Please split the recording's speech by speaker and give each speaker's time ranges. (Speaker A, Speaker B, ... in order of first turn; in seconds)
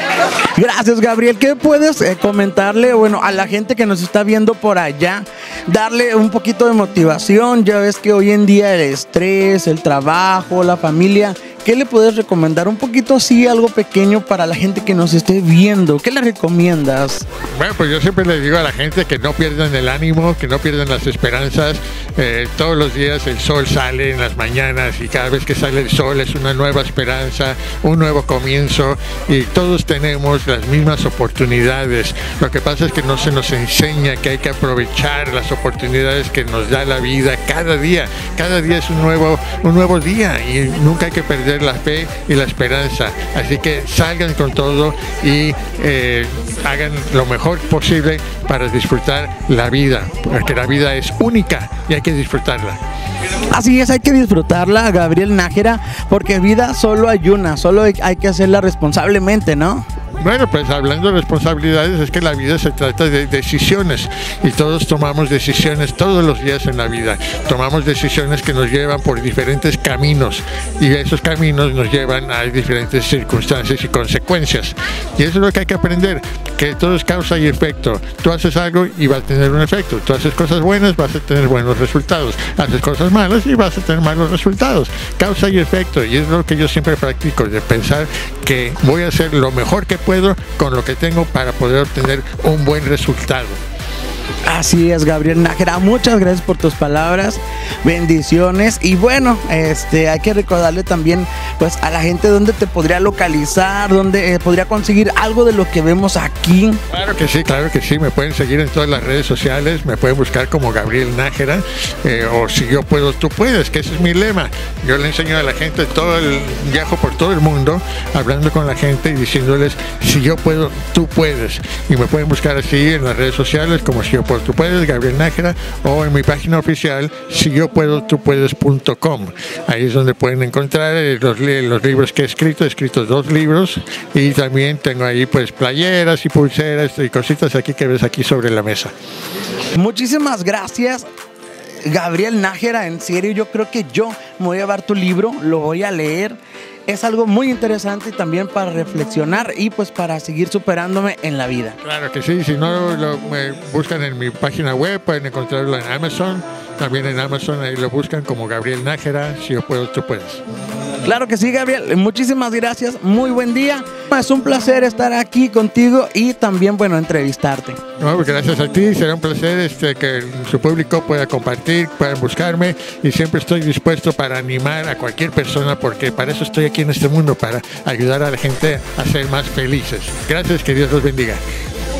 Speaker A: 0.5-17.2, 53.5-59.8, 94.5-106.8, 139.7-141.1, 141.8-151.8, 161.0-167.8
Speaker B: 17.5-52.8, 60.2-93.6, 106.9-138.9, 151.8-160.4, 168.0-181.4